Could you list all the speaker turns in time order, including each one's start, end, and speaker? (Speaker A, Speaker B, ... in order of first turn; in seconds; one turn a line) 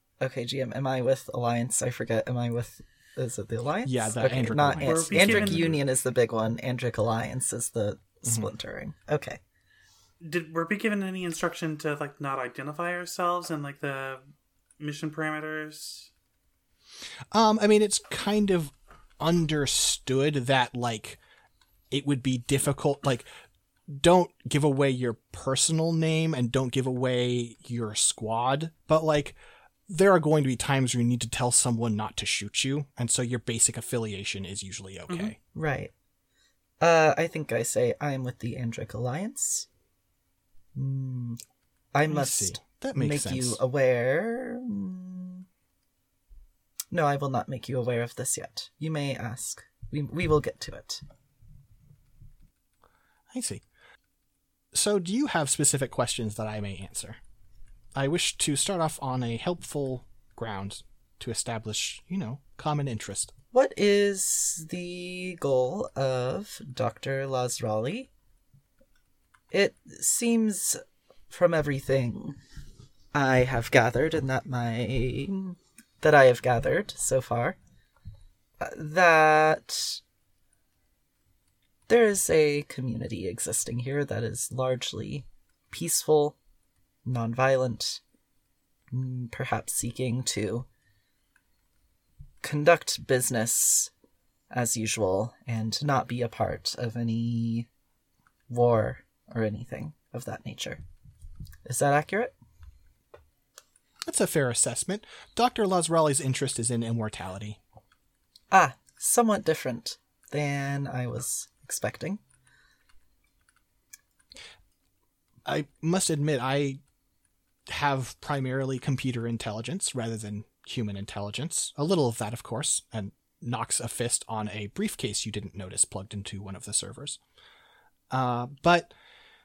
Speaker A: 0.2-9.4
Speaker B: 3.9-5.8
Speaker C: 4.8-5.8
Speaker B: 8.2-8.5
Speaker C: 10.2-14.2
Speaker C: 14.8-16.1
Speaker B: 17.3-21.2
Speaker B: 21.9-23.3
Speaker B: 23.9-29.4
Speaker B: 29.9-35.4
Speaker C: 35.1-35.4
Speaker A: 35.5-35.9
Speaker A: 36.8-39.7
Speaker A: 40.8-41.4
Speaker A: 41.9-45.5
Speaker B: 42.1-43.6
Speaker A: 46.9-51.0
Speaker B: 53.3-53.6
Speaker B: 54.7-57.2
Speaker B: 58.0-63.3
Speaker A: 63.5-68.1
Speaker A: 69.5-72.4
Speaker A: 73.1-77.6
Speaker A: 78.6-80.0
Speaker A: 81.9-86.4
Speaker A: 87.0-88.0
Speaker A: 88.9-90.7
Speaker A: 92.4-93.9
Speaker A: 94.5-97.7
Speaker A: 98.5-100.8
Speaker A: 101.7-102.4
Speaker B: 104.1-107.6
Speaker A: 108.5-112.2
Speaker B: 115.5-116.8
Speaker B: 117.7-127.2
Speaker B: 128.1-128.9